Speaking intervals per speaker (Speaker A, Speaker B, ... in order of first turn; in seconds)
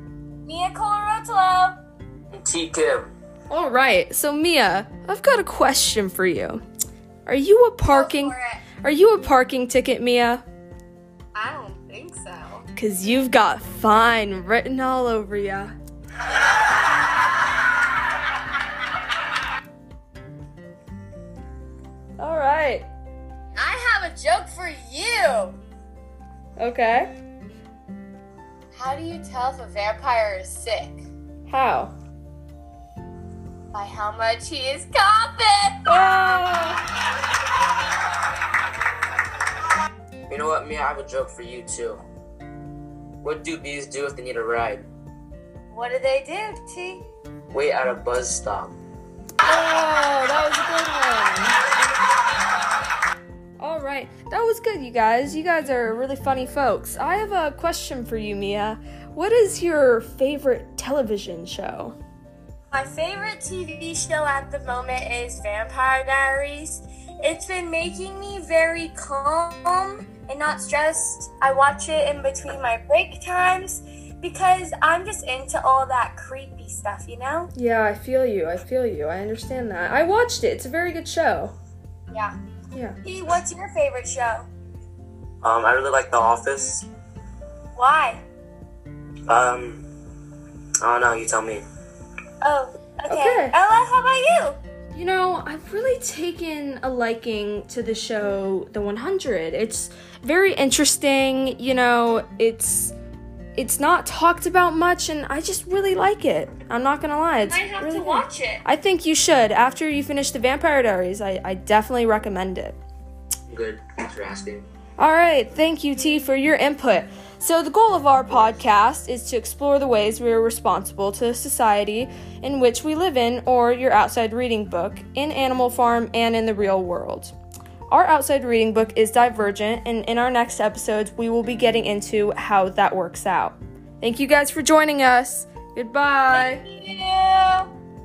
Speaker A: 0.4-1.8, 7.8-8.6, 11.3-12.7, 23.5-25.6, 28.7-31.0, 33.7-35.9, 45.7-47.0, 62.7-77.5, 83.0-84.5, 87.8-88.2, 92.4-94.6, 107.5-108.6, 136.3-137.7
Speaker B: 2.3-3.1, 40.3-42.0, 43.2-44.8, 47.5-48.7, 85.4-86.9, 89.3-89.8, 90.8-91.6, 113.5-114.6
Speaker C: 3.5-6.6, 7.2-10.4, 12.7-15.7, 22.2-22.9, 26.6-27.1, 31.5-31.9, 35.9-36.8, 49.4-51.5, 53.6-62.0, 77.5-81.5, 93.1-93.5, 94.9-102.9, 103.5-112.8, 115.0-127.3, 127.9-136.6